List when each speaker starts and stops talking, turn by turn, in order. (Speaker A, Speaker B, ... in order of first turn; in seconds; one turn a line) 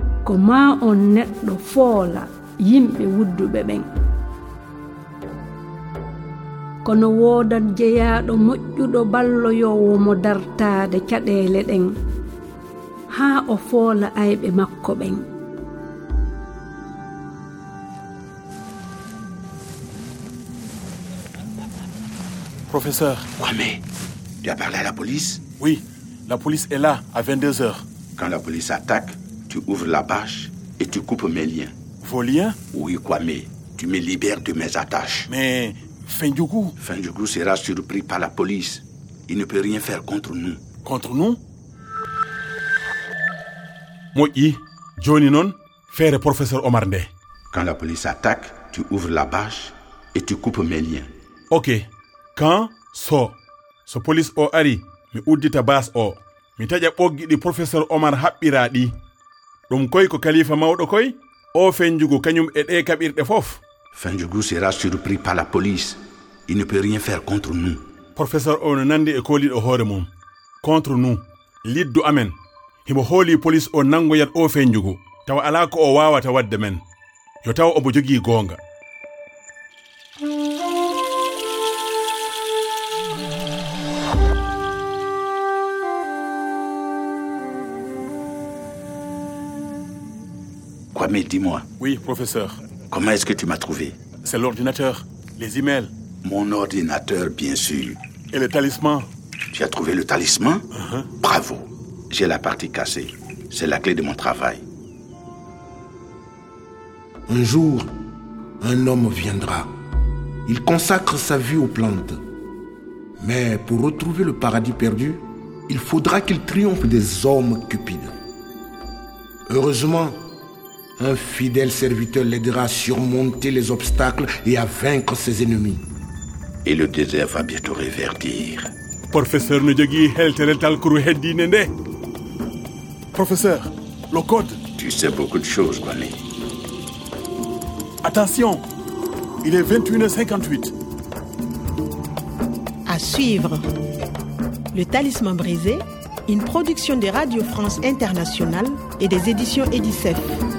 Speaker A: 0.2-3.9
Speaker A: 6.8-12.0
Speaker A: 13.1-15.2
Speaker B: 22.7-23.2
Speaker C: 23.4-23.8
Speaker C: 24.4-25.4
Speaker B: 25.6-27.8
Speaker C: 28.2-31.7
Speaker B: 32.0-32.6
Speaker C: 32.7-35.3
Speaker B: 35.3-36.8
Speaker C: 36.8-40.6
Speaker B: 40.9-41.4
Speaker B: 44.1-47.1
Speaker C: 47.5-51.1
Speaker B: 51.5-58.9
Speaker B: 59.7-63.6
Speaker C: 63.9-67.8
Speaker B: 68.2-70.1
Speaker B: 70.6-76.8
Speaker B: 77.4-78.6
Speaker C: 90.9-91.7
Speaker B: 91.8-92.6
Speaker C: 92.9-94.0
Speaker B: 94.2-95.9
Speaker C: 96.2-98.0
Speaker B: 98.3-99.1
Speaker C: 99.5-100.7
Speaker B: 100.7-101.1
Speaker C: 101.2-104.6
Speaker D: 107.3-107.9
Speaker D: 108.6-109.7
Speaker D: 110.5-112.2
Speaker D: 113.2-118.2
Speaker D: 119.5-120.2
Speaker D: 121.0-125.8
Speaker C: 126.6-128.7
Speaker B: 129.1-131.7
Speaker B: 133.1-134.6
Speaker C: 134.8-136.2
Speaker B: 138.0-138.6
Speaker B: 139.4-140.7
Speaker E: 142.9-143.7
Speaker E: 144.7-150.4